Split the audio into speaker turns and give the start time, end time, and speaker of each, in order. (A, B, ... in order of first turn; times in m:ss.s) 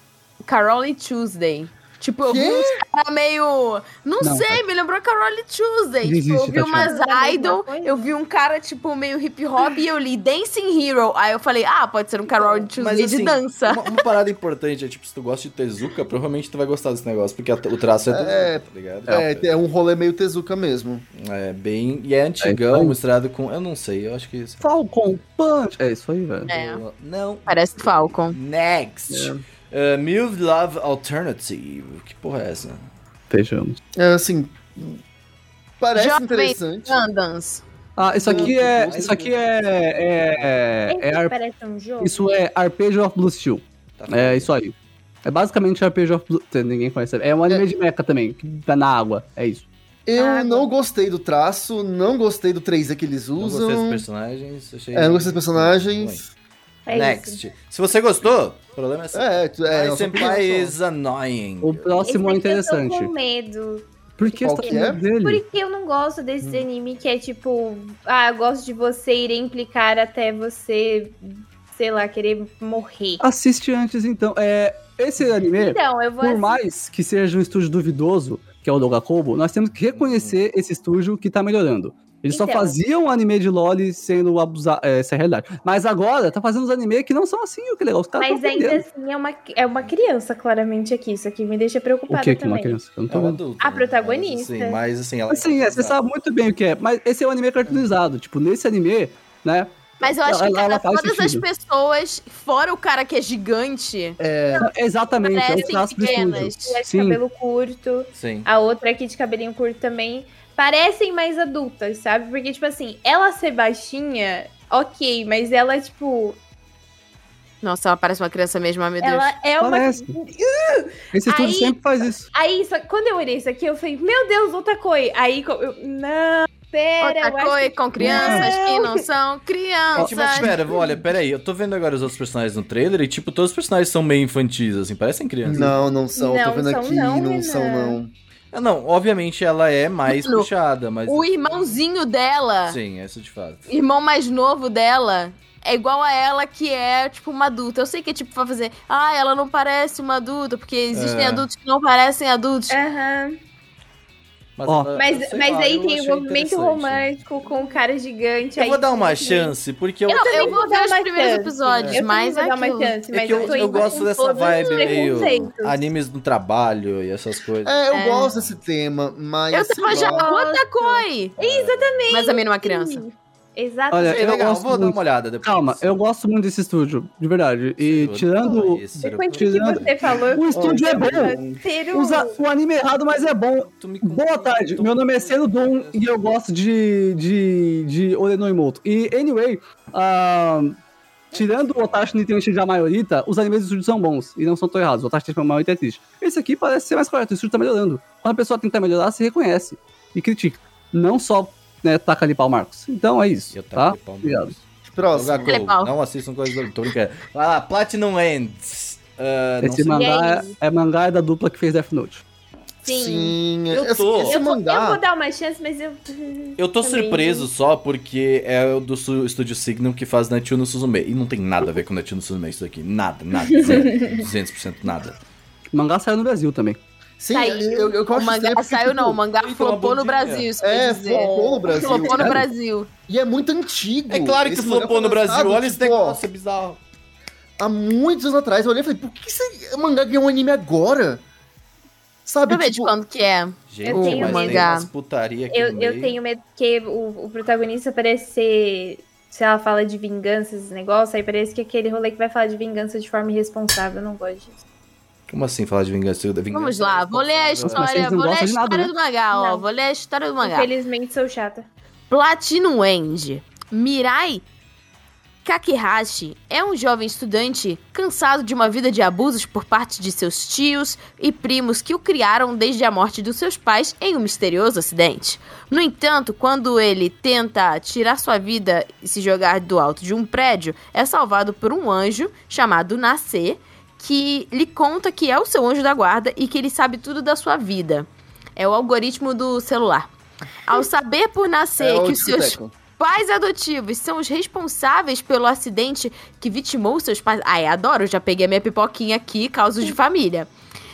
0:00.4-0:14.0 A
0:02.2-0:02.8 B
0:04.2-0:04.6 C
0:06.0-0:06.9 C
0:06.7-0:08.1 D
0:12.7-0:19.4 E
0:18.1-0:21.0 B
0:21.1-0:24.6 E
0:22.4-0:23.0 C
0:24.6-0:26.5 C
0:26.5-0:26.8 A
0:26.5-0:32.8 E
0:27.5-0:28.4 A
0:29.1-0:29.4 B
0:33.3-0:33.8 C
0:33.9-0:35.0 B
0:35.8-0:37.0 B
0:35.9-0:37.6 A
0:38.0-0:41.3 C
0:38.2-0:39.4 E
0:38.2-0:39.2 B
0:40.9-0:42.4 D
0:42.0-0:49.7 C
0:44.0-0:44.5 E
0:50.0-0:54.0 B
0:50.2-0:50.7 D
0:53.4-0:56.2 E
0:54.9-0:56.2 B
0:56.8-0:57.4 D
0:56.9-1:02.0 E
0:59.1-1:00.8 B
1:01.6-1:03.1 C
1:02.0-1:13.2 D
1:04.2-1:05.4 C
1:04.4-1:05.0 B
1:13.2-1:28.8 C
1:15.5-1:16.6 D
1:19.9-1:20.4 E
1:22.3-1:22.8 D
1:28.2-1:32.8 D
1:32.1-1:33.4 C
1:33.1-1:36.0 E
1:33.6-1:34.8 D
1:35.3-1:41.4 C
1:40.0-1:44.2 A
1:44.2-1:44.7 B
1:44.6-1:47.2 C
1:45.2-1:46.8 A
1:45.4-1:56.4 D
1:48.1-1:48.5 E
1:57.6-1:59.3 A
1:59.0-2:09.0 D
1:59.6-2:00.2 C
2:01.1-2:02.3 C
2:07.0-2:10.6 A
2:08.0-2:08.5 C
2:09.9-2:15.7 E
2:15.4-2:18.1 B
2:16.2-2:18.0 D
2:18.5-2:21.7 E
2:20.0-2:20.5 A
2:21.0-2:22.8 A
2:22.7-2:23.6 E
2:23.7-2:32.8 A
2:30.9-2:31.4 E
2:32.7-2:33.4 D
2:34.6-2:37.5 E
2:34.6-2:34.9 C
2:34.9-2:39.6 D
2:38.6-2:40.6 E
2:40.1-2:45.2 A
2:40.1-2:45.8 D
2:43.1-2:48.5 E
2:47.6-2:50.3 B
2:47.9-2:48.3 A
2:49.5-2:51.3 A
2:49.8-2:54.3 D
2:51.4-2:52.1 E
2:52.1-2:53.0 A
2:53.9-3:01.4 C
2:54.1-2:55.9 E
2:57.8-3:00.2 E
2:59.0-3:02.4 D
3:00.5-3:01.6 B
3:01.9-3:10.8 C
3:03.7-3:06.1 E
3:11.3-3:24.5 C
3:11.3-3:12.0 E
3:23.5-3:30.2 E
3:24.9-3:25.6 B
3:25.4-3:25.9 A
3:29.6-3:32.2 C
3:29.9-3:30.6 D
3:32.8-3:33.4 D
3:32.8-3:35.0 B
3:33.7-3:34.4 E
3:34.2-3:37.5 D
3:36.6-3:45.2 E
3:43.5-3:44.2 D
3:45.7-3:46.8 C
3:47.2-3:49.2 B
3:47.3-3:48.0 D
3:48.1-3:52.9 A
3:49.4-3:50.5 E
3:50.6-3:52.4 B
3:51.1-3:52.2 D
3:52.2-3:52.4 C
3:53.1-3:56.2 B
3:54.1-3:56.8 E
3:57.6-4:01.2 B
4:02.2-4:02.9 B
4:02.5-4:04.9 A
4:03.7-4:06.2 E
4:03.8-4:04.7 D
4:05.5-4:14.6 D
4:15.3-4:18.2 E
4:16.5-4:20.7 A
4:17.7-4:18.9 C
4:19.3-4:19.6 D
4:20.4-4:21.7 D
4:22.1-4:24.4 A
4:25.4-4:50.1 A
4:50.6-5:00.5 A
4:51.8-4:52.7 B